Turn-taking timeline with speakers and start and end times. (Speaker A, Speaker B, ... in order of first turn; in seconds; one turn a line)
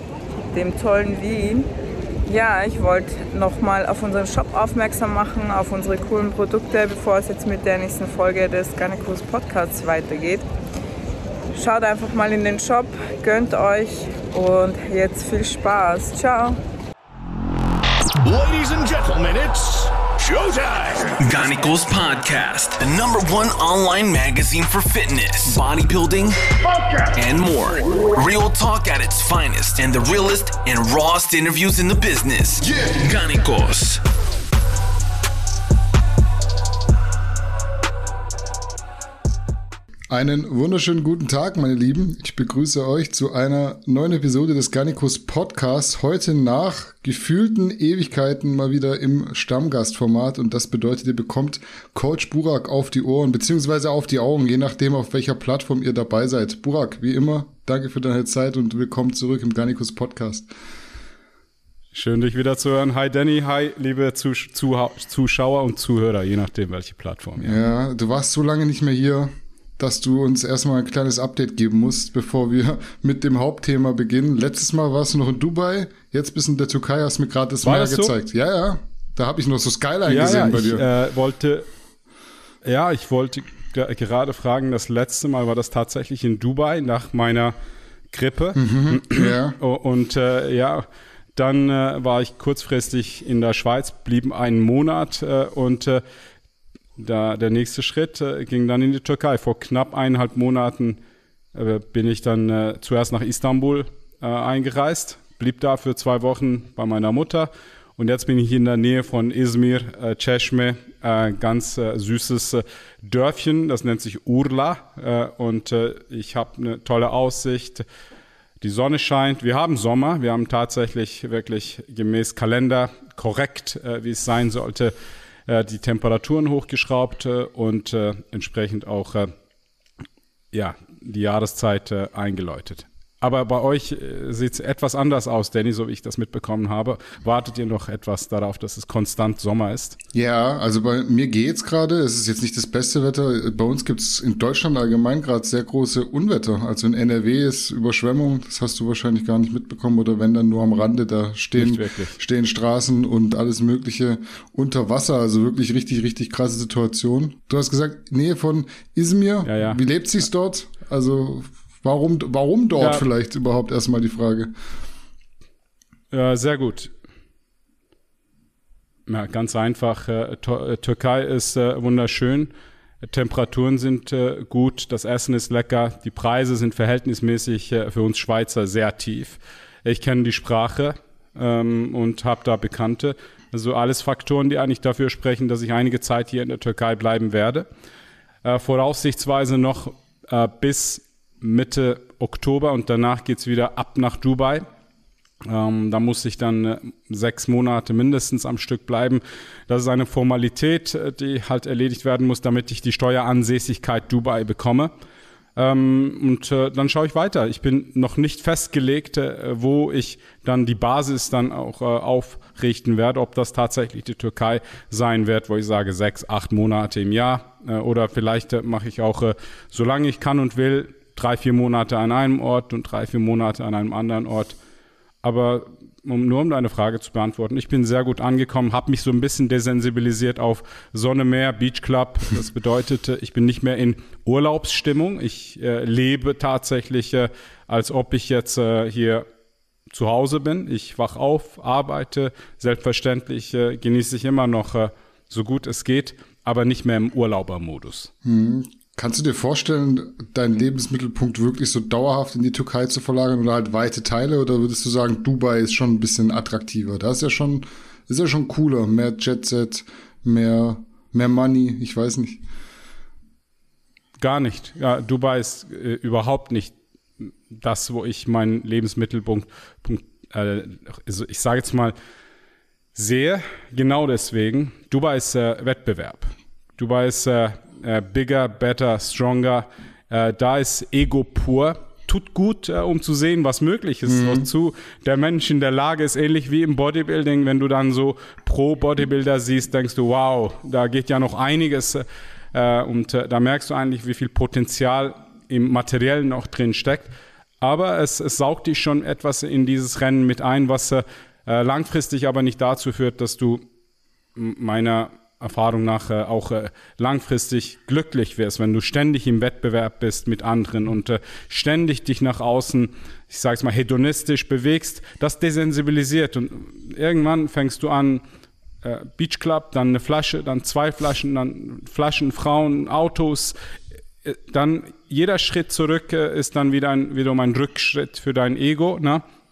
Speaker A: 0.5-1.7
Speaker A: 2.3-10.4
Speaker A: 11.5-16.6
Speaker B: 18.2-21.2
Speaker C: 21.2-34.0
Speaker D: 40.1-60.5
Speaker E: 61.9-67.6
Speaker D: 67.4-80.9
Speaker E: 77.6-78.2
Speaker E: 80.0-81.7
Speaker E: 82.6-87.6
Speaker E: 88.1-96.0
Speaker D: 88.6-89.6
Speaker E: 97.0-101.0
Speaker E: 101.5-117.8
Speaker E: 118.6-124.9
Speaker E: 125.5-129.3
Speaker E: 130.5-140.0
Speaker D: 140.1-164.5
Speaker E: 151.6-152.2
Speaker E: 159.4-159.8
Speaker E: 162.8-163.1
Speaker E: 166.1-166.9
Speaker E: 169.1-172.5
Speaker E: 173.0-187.7
Speaker E: 188.4-194.7
Speaker E: 195.4-204.9
Speaker E: 205.6-224.6
Speaker E: 225.2-239.3
Speaker E: 239.9-248.1
Speaker D: 248.2-262.4
Speaker E: 264.2-272.0
Speaker E: 272.9-303.6
Speaker D: 284.1-284.5
Speaker E: 304.4-318.2
Speaker E: 318.8-323.6
Speaker E: 324.2-329.2